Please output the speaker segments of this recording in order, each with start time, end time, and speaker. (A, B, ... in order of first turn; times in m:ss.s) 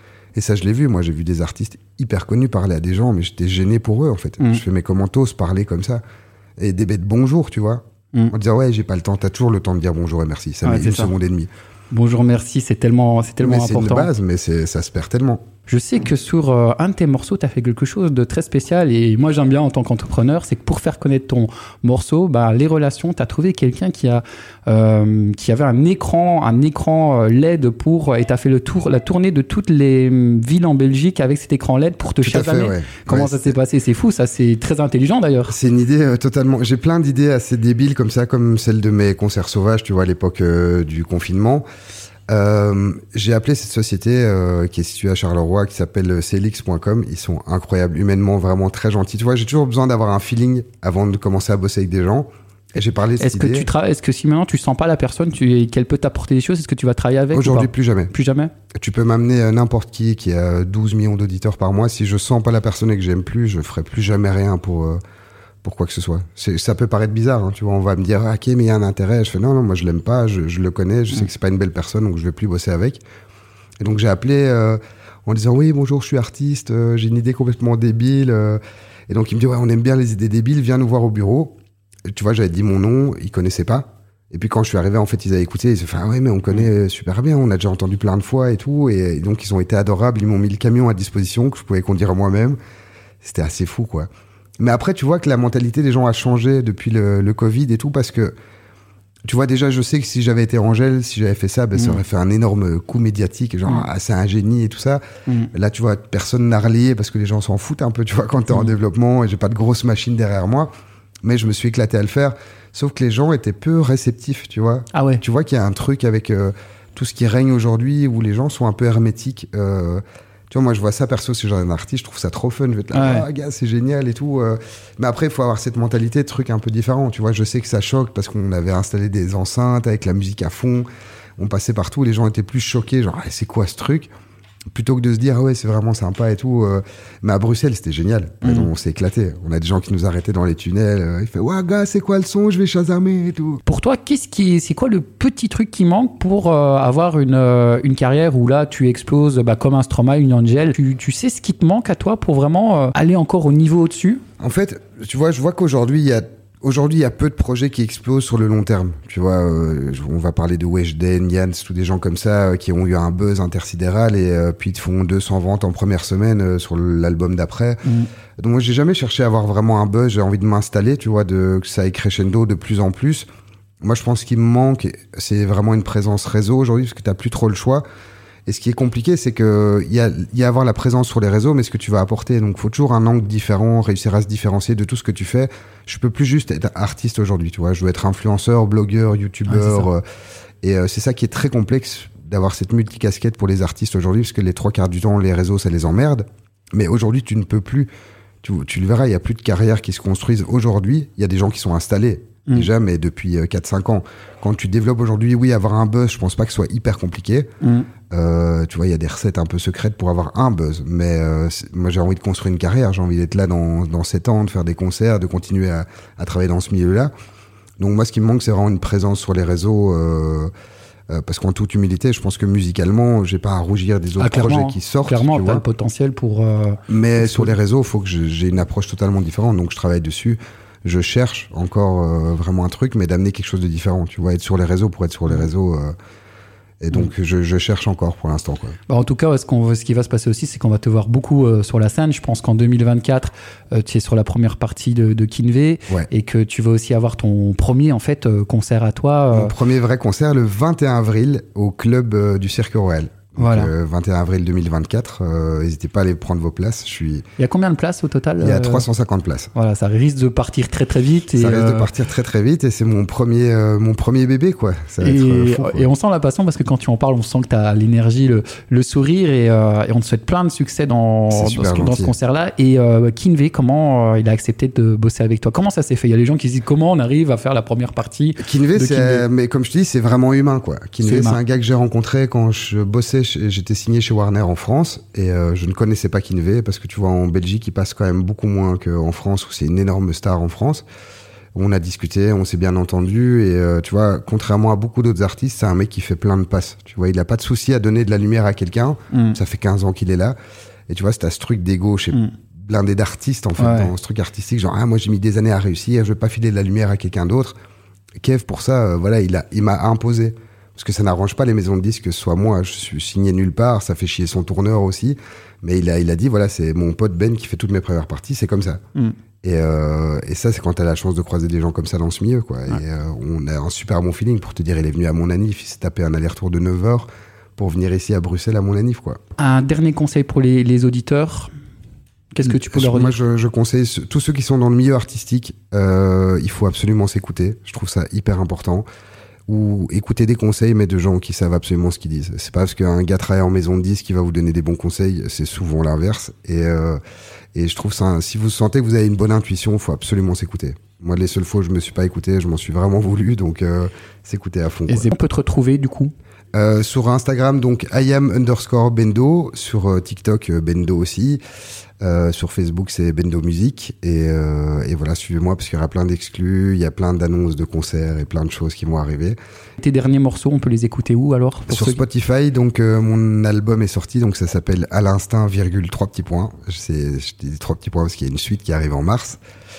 0:00.4-0:06.0 A
0:06.6-0:11.5 A
0:10.6-0:11.1 B
0:11.9-0:14.1 B
0:13.4-0:15.4 A
0:15.7-0:35.5 B
0:32.2-0:33.6 A
0:35.5-0:41.6 A
0:42.3-0:53.7 A
0:53.2-0:58.5 B
0:57.3-0:58.1 A
0:58.8-1:05.0 A
1:05.6-1:13.0 A
1:13.8-1:21.6 A
1:22.1-1:32.6 A
1:33.2-1:34.1 A
1:34.6-1:38.3 A
1:39.3-1:45.0 A
1:45.5-1:50.7 A
1:51.2-2:10.9 A
1:54.9-1:55.2 B
2:02.9-2:03.2 B
2:11.4-2:14.1 A
2:14.7-2:23.6 A
2:18.4-2:18.7 B
2:23.7-2:34.2 B
2:34.4-2:47.8 A
2:48.4-2:53.2 A
2:53.8-2:57.8 A
2:58.5-3:10.0 A
3:09.5-3:09.9 B
3:10.6-3:17.9 A
3:18.4-3:27.5 A
3:27.6-3:27.9 B
3:28.1-3:37.1 A
3:37.8-3:40.5 A
3:41.1-3:45.6 A
3:44.2-3:47.5 B
3:46.9-3:55.9 A
3:56.8-3:58.8 A
3:58.9-4:09.5 B
4:09.3-4:17.2 A
4:13.4-4:13.7 B
4:17.4-4:18.8 B
4:18.4-4:19.5 A
4:19.6-4:21.9 B
4:21.4-4:25.9 A
4:25.0-4:39.2 B
4:31.3-4:32.1 A
4:38.4-4:50.8 A
4:41.0-4:41.4 B
4:51.5-5:00.4 A
4:59.1-4:59.4 B
5:00.9-5:07.6 A
5:03.6-5:03.9 B
5:08.2-5:18.8 A
5:19.4-5:29.2 A
5:29.4-5:31.5 B
5:32.3-5:33.2 B
5:32.4-5:38.8 A
5:39.5-5:47.0 A
5:47.5-5:55.1 A
5:54.9-5:56.1 B
5:56.5-6:01.4 A
6:02.0-6:09.4 A
6:09.8-6:12.0 B
6:11.7-6:19.4 A